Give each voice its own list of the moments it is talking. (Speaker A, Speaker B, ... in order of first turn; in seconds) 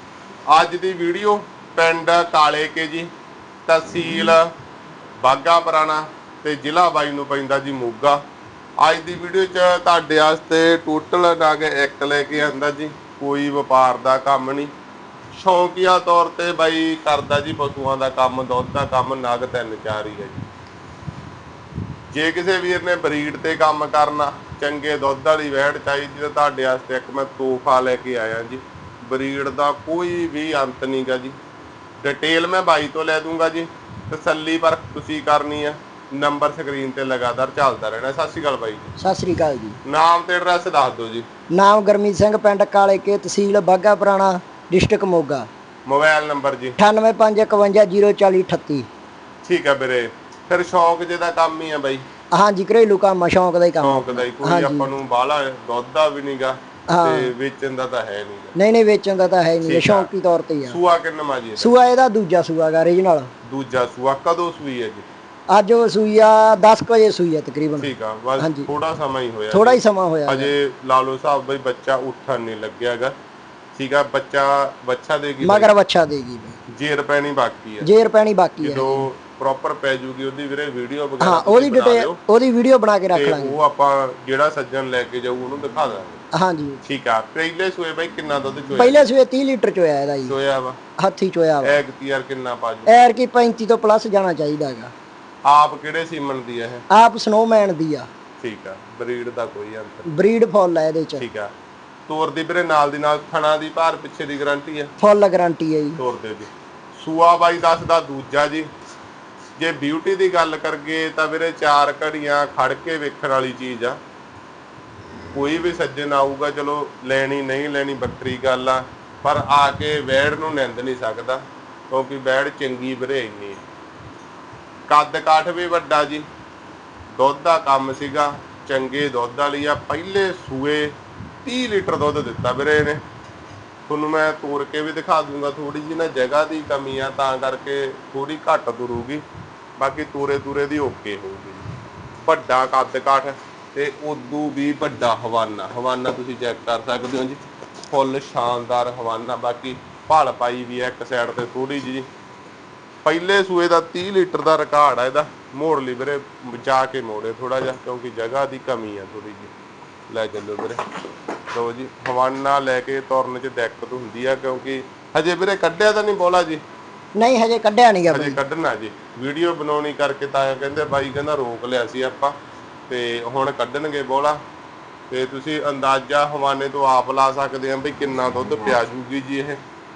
Speaker A: 0.5-3.1, 3.7-4.5, 5.2-8.2, 8.8-14.7, 15.3-20.4, 22.1-31.4, 32.0-38.9, 39.9-41.3, 45.9-46.8, 49.4-52.0, 53.8-58.5, 59.6-60.1, 60.7-61.7, 63.5-65.0, 67.8-73.2, 73.8-75.7, 76.7-77.9, 78.6-82.2, 83.1-86.2, 86.8-89.1, 90.2-90.8, 91.6-92.9, 95.5-96.8, 98.4-100.1, 101.2-101.5, 102.1-104.9, 106.0-108.7, 109.6-114.0, 115.3-123.6, 124.9-126.3, 127.2-133.0, 133.9-139.2, 139.8-141.7, 142.3-152.1, 153.0-159.5, 160.1-160.8, 161.5-166.6, 168.1-172.3, 172.9-174.4, 175.1-179.6
Speaker B: 39.0-39.8, 41.5-45.5, 46.8-48.9, 52.4-54.9, 56.9-57.3, 58.6-60.8, 61.6-63.3, 65.5-68.7, 69.5-70.5, 75.4-76.6, 77.8-79.1, 81.2-83.6, 86.3-86.8, 88.8-90.3, 91.0-91.8, 92.9-94.9, 96.9-98.1, 100.1-101.2, 105.0-106.0, 167.2-168.4